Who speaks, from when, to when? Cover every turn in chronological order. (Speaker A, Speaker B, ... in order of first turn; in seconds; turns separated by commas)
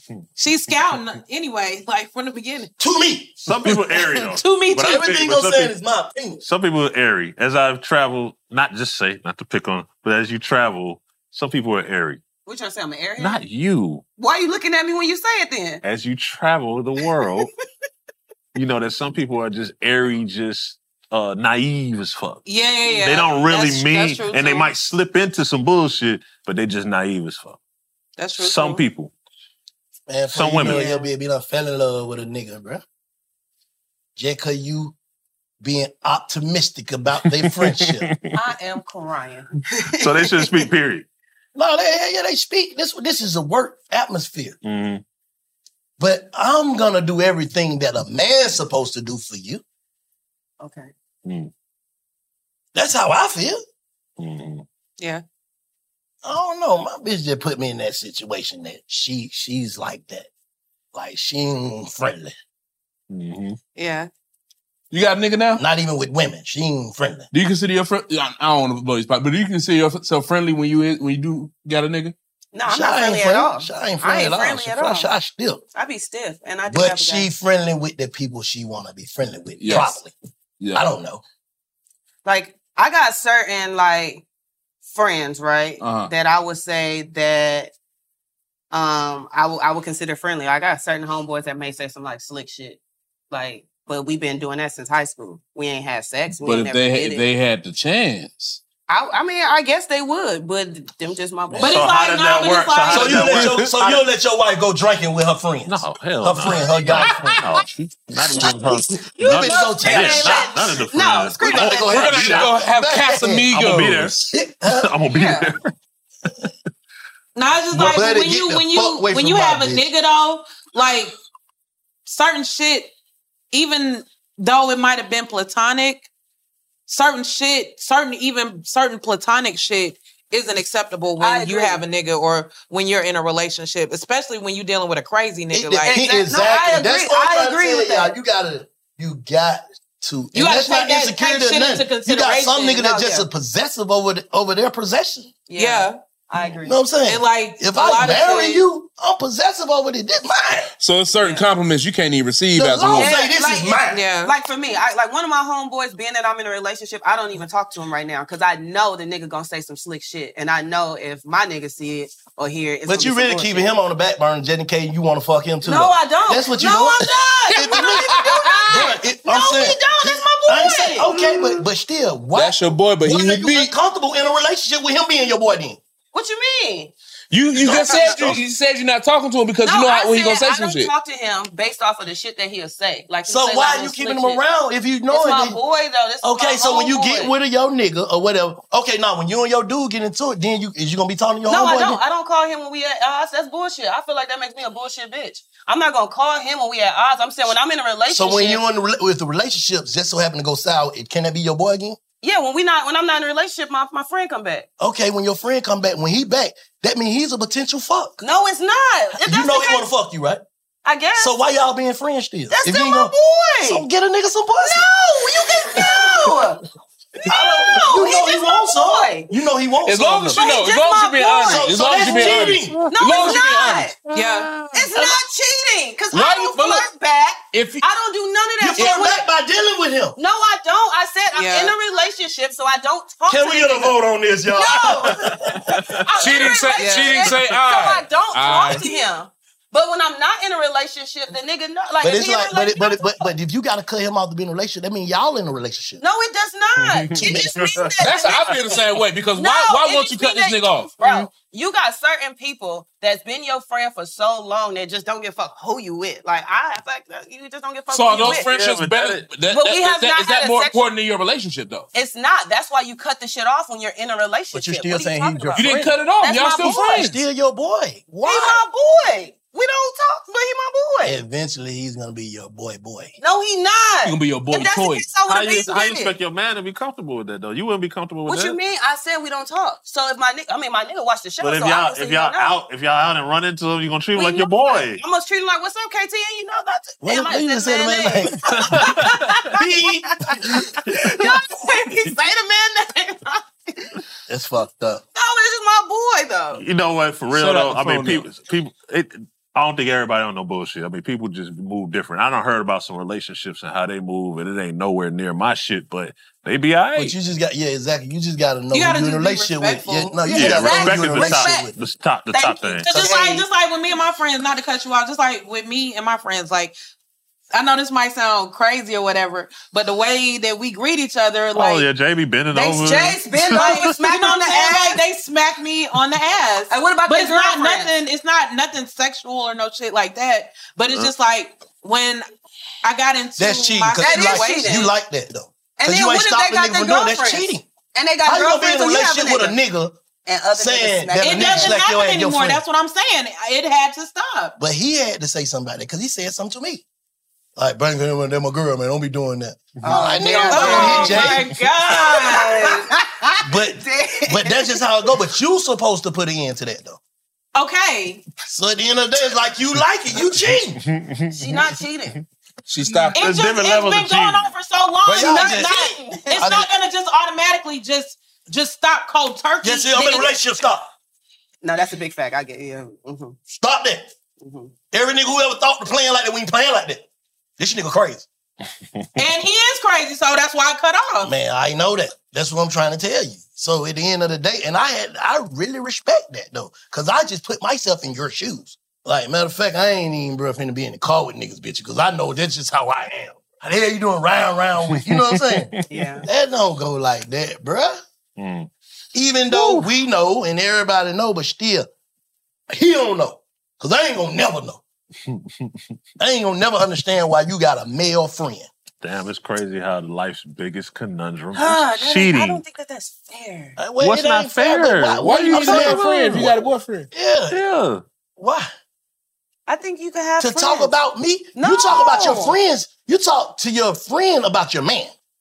Speaker A: 0.4-2.7, Speaker B: 2.8-3.4, Speaker C: 3.5-5.7, Speaker A: 4.4-5.1, Speaker B: 4.8-6.4, Speaker C: 6.4-12.2, Speaker D: 12.4-13.4, Speaker C: 13.2-14.0, Speaker D: 14.2-15.8, Speaker C: 15.8-17.5, Speaker C: 18.6-27.6, Speaker A: 22.4-24.7, Speaker A: 28.2-28.8, Speaker C: 28.4-29.1, Speaker B: 30.1-32.8, Speaker C: 30.3-30.8, Speaker D: 30.6-31.1, Speaker B: 34.2-35.0, Speaker B: 35.6-38.1, Speaker C: 37.4-38.3, Speaker D: 38.3-40.5, Speaker C: 40.0-41.1, Speaker B: 41.5-44.6, Speaker C: 44.6-45.0, Speaker B: 46.0-49.6, Speaker D: 50.6-50.9, Speaker C: 51.2-51.5, Speaker B: 52.7-53.6, Speaker C: 54.2-54.6, Speaker B: 56.2-60.3, Speaker B: 60.9-62.3, Speaker C: 63.1-63.6, Speaker A: 63.8-64.1, Speaker E: 64.9-65.6, Speaker B: 65.6-67.3, Speaker E: 67.3-72.1, Speaker D: 72.5-75.1, Speaker B: 72.7-75.6, Speaker D: 75.7-77.3, Speaker B: 76.7-80.1, Speaker E: 79.6-80.0, Speaker E: 80.6-80.9, Speaker B: 80.7-81.2, Speaker D: 82.2-84.2, Speaker D: 84.8-87.7, Speaker E: 85.8-86.1, Speaker D: 88.7-92.8, Speaker D: 93.3-97.3, Speaker E: 96.4-98.6, Speaker D: 98.9-101.9, Speaker C: 101.5-104.0, Speaker A: 101.6-103.5, Speaker B: 102.9-107.4, Speaker C: 105.7-112.5, Speaker B: 108.4-110.7, Speaker D: 109.2-112.2, Speaker B: 111.4-113.5, Speaker E: 111.8-114.2, Speaker C: 113.5-115.6, Speaker B: 114.3-114.9, Speaker D: 115.2-115.4, Speaker A: 117.3-121.1, Speaker B: 117.7-119.9, Speaker A: 122.1-122.9, Speaker A: 123.5-126.1, Speaker A: 126.9-136.0, Speaker D: 131.2-131.8, Speaker B: 135.5-145.3, Speaker D: 135.9-138.1, Speaker A: 140.3-142.8, Speaker D: 142.7-143.3, Speaker D: 145.5-146.8, Speaker A: 145.6-146.0, Speaker B: 146.6-150.7, Speaker A: 147.1-148.6, Speaker E: 150.8-153.1, Speaker B: 152.6-154.0, Speaker D: 152.9-163.7, Speaker A: 153.9-154.3, Speaker B: 162.9-175.8, Speaker D: 165.6-171.1, Speaker E: 167.5-168.8, Speaker E: 172.3-173.7, Speaker D: 176.1-176.9, Speaker E: 177.3-180.9, Speaker B: 177.6-178.4, Speaker D: 177.6-178.3, Speaker D: 179.6-184.4, Speaker B: 183.3-185.6, Speaker D: 185.1-187.3, Speaker B: 186.2-192.0, Speaker D: 191.5-198.6, Speaker B: 198.1-202.0, Speaker D: 202.2-204.7, Speaker B: 204.8-208.2, Speaker D: 208.2-209.9, Speaker B: 209.2-210.4, Speaker D: 210.8-211.3, Speaker B: 211.2-213.1, Speaker D: 212.5-213.8, Speaker B: 213.7-214.9, Speaker D: 214.6-216.6, Speaker B: 217.3-220.4, Speaker D: 217.3-219.3, Speaker E: 219.9-223.9, Speaker D: 220.3-223.9, Speaker B: 221.4-222.8, Speaker A: 224.1-224.5, Speaker D: 224.7-229.2, Speaker E: 226.1-226.9, Speaker E: 227.5-227.8, Speaker B: 228.6-230.2, Speaker D: 230.2-233.9, Speaker A: 231.3-231.7, Speaker B: 233.3-235.6, Speaker D: 234.5-235.2, Speaker D: 236.1-243.2, Speaker E: 236.2-238.8, Speaker A: 236.8-237.1, Speaker B: 242.0-246.0, Speaker D: 246.0-248.8, Speaker C: 246.8-248.3, Speaker B: 247.2-247.6, Speaker E: 248.0-250.9, Speaker D: 249.3-258.5, Speaker E: 257.9-261.9, Speaker C: 258.2-259.3, Speaker D: 259.5-260.8, Speaker D: 261.9-267.0, Speaker B: 264.5-266.0, Speaker E: 265.5-267.2, Speaker B: 266.6-268.6, Speaker D: 268.2-271.2, Speaker B: 271.0-273.1, Speaker D: 273.2-276.1, Speaker E: 274.1-275.1, Speaker C: 275.3-278.6, Speaker D: 278.3-282.6, Speaker C: 281.4-285.0, Speaker D: 284.2-289.6, Speaker B: 287.0-288.9, Speaker C: 288.6-289.4, Speaker B: 289.6-290.7, Speaker D: 291.0-293.4, Speaker B: 294.3-295.0, Speaker D: 295.1-296.6, Speaker C: 296.6-307.2, Speaker E: 297.3-298.3, Speaker B: 306.9-311.7, Speaker A: 308.7-311.0, Speaker C: 310.3-313.0, Speaker D: 310.4-311.6, Speaker D: 312.3-313.4, Speaker A: 312.9-316.8, Speaker A: 317.5-321.9, Speaker C: 321.5-323.8, Speaker D: 322.5-325.0, Speaker A: 323.6-332.2, Speaker D: 326.7-327.9, Speaker A: 332.8-334.8, Speaker B: 333.4-337.7, Speaker D: 334.0-334.9, Speaker D: 335.8-339.6, Speaker B: 338.2-340.0, Speaker D: 340.3-341.8, Speaker B: 340.5-342.6, Speaker A: 341.2-344.6, Speaker B: 344.6-346.8, Speaker B: 347.6-351.5, Speaker D: 349.8-351.4, Speaker A: 350.4-352.8, Speaker D: 351.9-354.8, Speaker B: 353.4-357.0, Speaker A: 357.6-358.2, Speaker B: 358.4-360.8, Speaker C: 360.9-361.7, Speaker D: 361.3-362.2, Speaker E: 362.7-363.2, Speaker C: 363.1-364.5, Speaker A: 363.1-370.3, Speaker B: 365.1-365.8, Speaker D: 365.2-366.5, Speaker B: 366.3-366.7, Speaker B: 369.6-370.9, Speaker D: 371.6-373.4, Speaker B: 373.5-374.1, Speaker D: 374.4-374.7, Speaker B: 374.9-377.1, Speaker B: 377.6-378.3, Speaker A: 379.2-381.3, Speaker B: 381.2-395.7, Speaker C: 395.4-395.7, Speaker D: 395.9-396.3, Speaker B: 396.2-398.0, Speaker C: 398.4-398.7, Speaker B: 399.1-401.9, Speaker C: 399.5-399.9, Speaker B: 402.7-404.8, Speaker C: 405.3-405.7, Speaker B: 406.2-408.7, Speaker C: 409.0-412.6, Speaker D: 411.5-413.8, Speaker B: 413.8-416.5, Speaker C: 414.0-416.6, Speaker E: 415.2-417.1, Speaker B: 417.1-417.6, Speaker C: 417.5-418.0, Speaker B: 418.4-418.7, Speaker D: 419.7-420.9, Speaker B: 420.4-425.1, Speaker D: 421.6-422.6